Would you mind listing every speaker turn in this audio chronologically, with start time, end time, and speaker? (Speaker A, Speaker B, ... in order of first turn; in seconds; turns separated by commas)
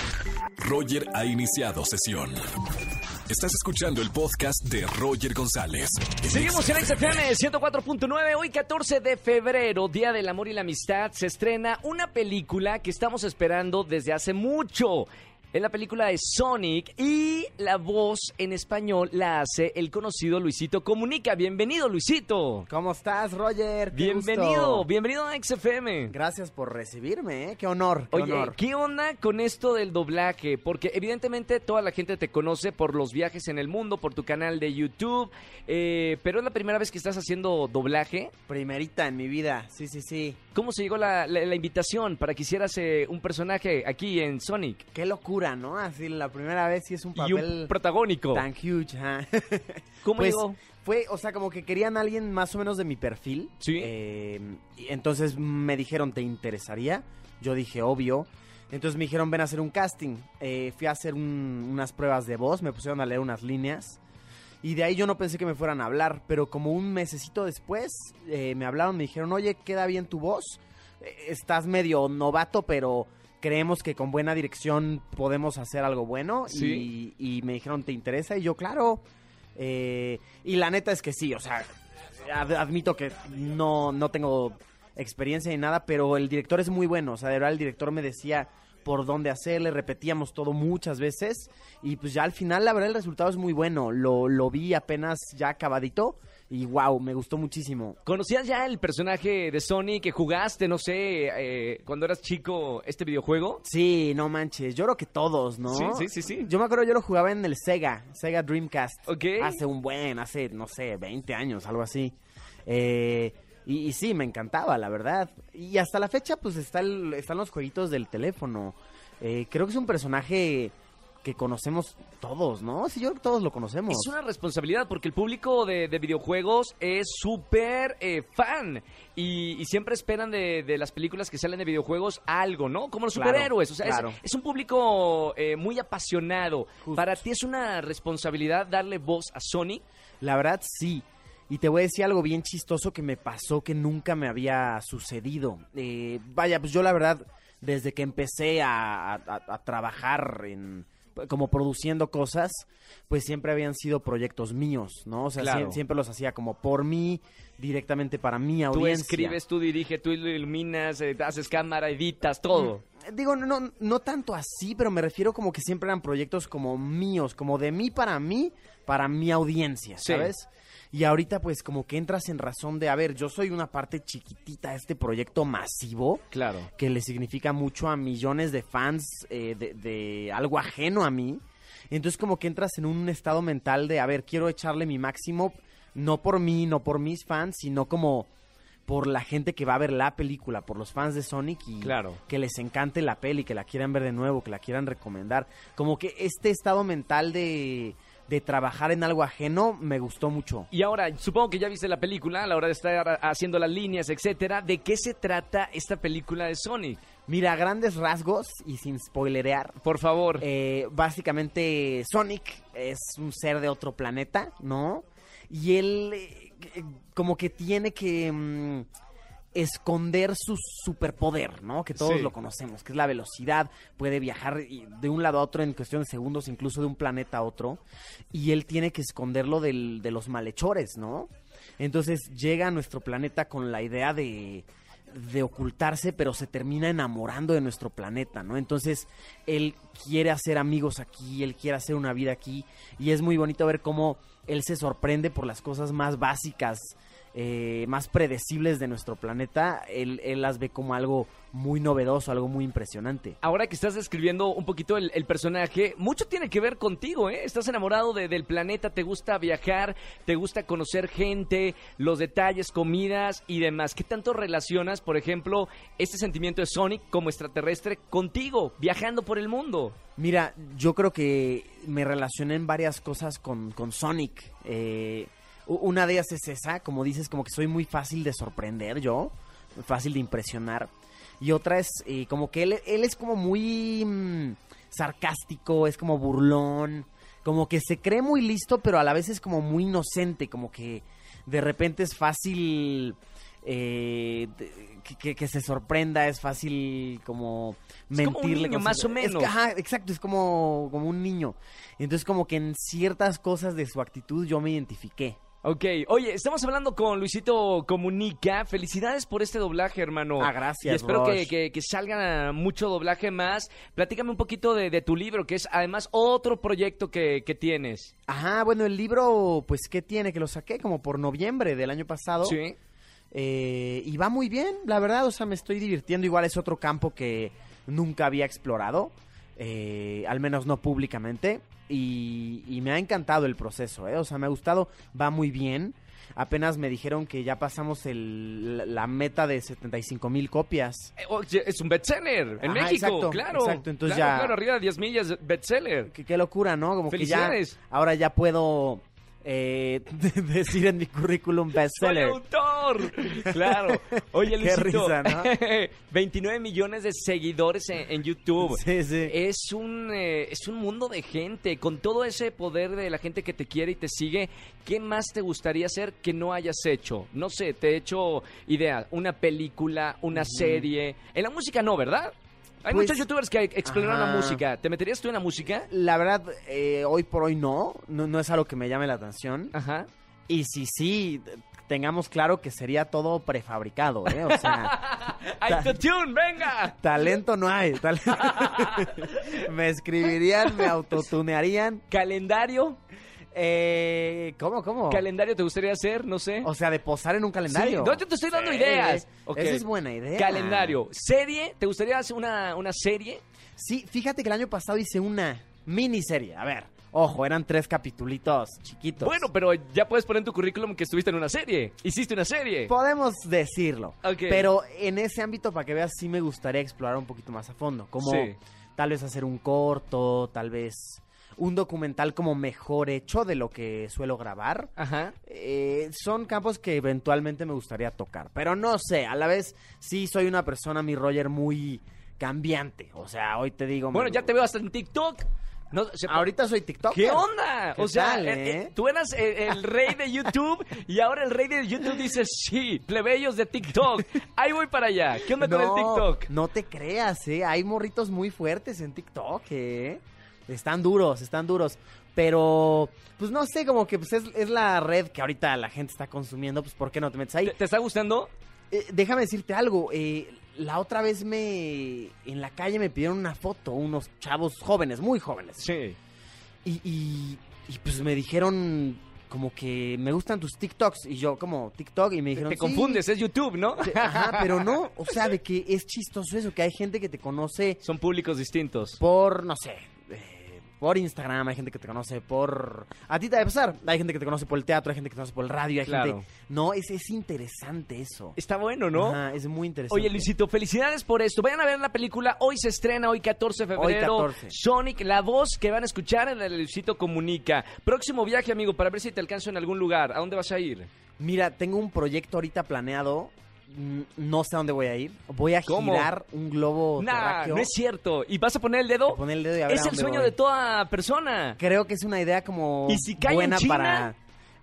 Speaker A: 0.6-2.4, Speaker A: 3.3-7.2, Speaker B: 6.3-22.7, Speaker C: 22.7-24.9, Speaker B: 23.9-26.1, Speaker C: 26.1-28.6, Speaker B: 28.1-38.3, Speaker C: 38.5-40.4, Speaker B: 40.5-44.8, Speaker C: 44.9-47.7, Speaker B: 47.2-48.5, Speaker C: 48.3-64.0, Speaker B: 50.0-50.6, Speaker B: 53.6-53.9, Speaker C: 64.6-79.0, Speaker B: 76.5-76.9, Speaker C: 79.6-98.0, Speaker B: 98.0-103.6, Speaker C: 103.6-124.1, Speaker B: 105.7-106.5, Speaker B: 109.1-109.6, Speaker B: 123.9-139.8, Speaker C: 133.2-134.2, Speaker C: 136.8-137.2, Speaker C: 140.2-159.4, Speaker B: 155.4-155.8, Speaker B: 158.7-162.8, Speaker C: 162.6-176.2, Speaker B: 170.0-170.3, Speaker B: 176.3-176.7, Speaker C: 176.8-188.3, Speaker C: 188.9-200.7, Speaker B: 191.8-192.2, Speaker B: 200.7-207.0, Speaker C: 207.3-209.8, Speaker B: 209.8-210.5, Speaker C: 210.4-218.9, Speaker C: 219.5-227.8, Speaker B: 221.9-222.3, Speaker C: 228.3-253.4, Speaker B: 253.4-270.0, Speaker C: 270.2-305.4, Speaker B: 298.1-299.5, Speaker B: 305.6-318.1, Speaker C: 310.4-311.5, Speaker C: 318.3-322.6, Speaker B: 322.4-322.8, Speaker C: 323.3-341.1, Speaker B: 341.2-346.1, Speaker C: 342.6-344.6, Speaker C: 346.1-352.4, Speaker B: 347.1-347.8, Speaker B: 351.9-375.9, Speaker C: 353.2-355.6, Speaker C: 358.6-359.3, Speaker C: 370.3-370.9, Speaker C: 372.9-373.3, Speaker C: 373.9-374.6, Speaker C: 375.9-379.7, Speaker B: 379.7-380.1, Speaker C: 380.5-385.0, Speaker B: 384.4-387.1, Speaker C: 385.7-386.0, Speaker C: 387.0-392.0, Speaker B: 388.4-389.6, Speaker B: 390.6-390.9, Speaker B: 392.1-393.0, Speaker C: 393.5-395.3, Speaker B: 395.1-396.7, Speaker C: 396.6-401.0, Speaker B: 397.7-403.4, Speaker C: 403.8-409.5, Speaker B: 409.2-412.9, Speaker C: 412.9-424.9, Speaker B: 414.2-414.7, Speaker B: 418.2-418.6, Speaker B: 425.0-425.4, Speaker C: 425.4-434.7, Speaker B: 434.1-436.4, Speaker C: 436.3-438.9, Speaker B: 437.1-446.5, Speaker C: 445.6-457.8, Speaker B: 457.6-458.5, Speaker C: 458.9-465.8, Speaker B: 465.8-466.2, Speaker C: 466.9-473.2, Speaker B: 472.6-475.5, Speaker C: 474.0-478.0, Speaker B: 478.0-479.2, Speaker C: 479.2-488.6, Speaker B: 486.1-486.5, Speaker B: 488.6-489.4, Speaker C: 489.1-490.5, Speaker B: 490.1-501.1, Speaker C: 494.0-494.8, Speaker C: 501.4-507.9, Speaker B: 505.9-506.3, Speaker B: 507.2-511.8, Speaker C: 509.3-510.6, Speaker C: 511.8-514.4, Speaker B: 513.1-514.3